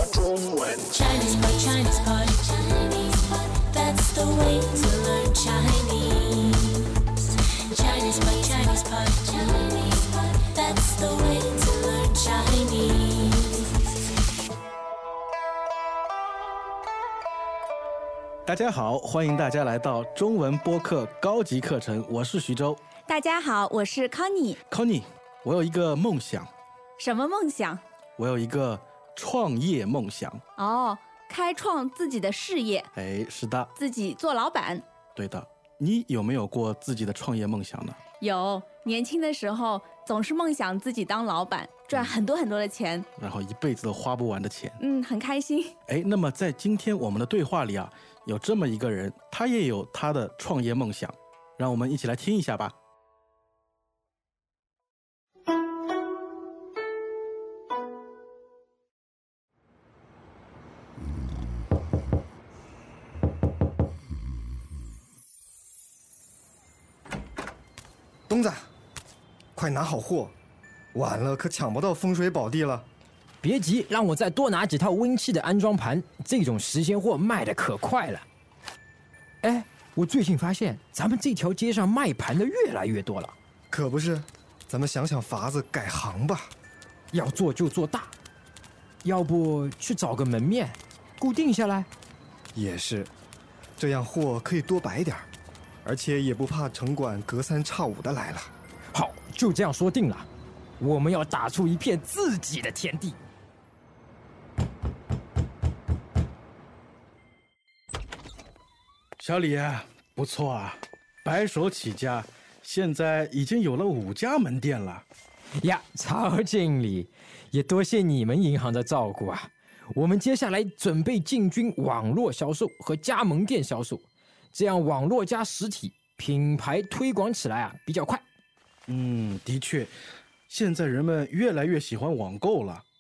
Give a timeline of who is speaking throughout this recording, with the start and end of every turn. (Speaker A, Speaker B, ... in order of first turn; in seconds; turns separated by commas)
Speaker A: 0.9-7.0, Speaker A: 7.7-13.7, Speaker B: 18.4-22.8, Speaker C: 23.1-24.6, Speaker B: 24.7-26.5, Speaker C: 27.0-27.8, Speaker B: 28.2-30.4, Speaker C: 30.6-32.9, Speaker B: 33.0-33.7, Speaker C: 33.8-34.8, Speaker B: 35.1-38.0, Speaker C: 38.2-43.1, Speaker B: 41.9-42.2, Speaker B: 43.2-44.8, Speaker C: 44.8-45.7, Speaker B: 45.9-52.8, Speaker D: 68.3-68.7, Speaker D: 69.5-70.3, Speaker D: 70.9-72.9, Speaker E: 73.4-78.2, Speaker E: 79.4-83.3, Speaker D: 83.7-86.5, Speaker E: 87.1-88.1, Speaker E: 89.0-91.9, Speaker D: 92.5-93.1, Speaker D: 93.8-95.3, Speaker D: 95.8-98.5, Speaker E: 98.9-100.3, Speaker E: 100.8-103.2, Speaker B: 109.2-115.0, Speaker E: 115.6-128.2, Speaker B: 128.9-130.0, Speaker B: 130.5-132.8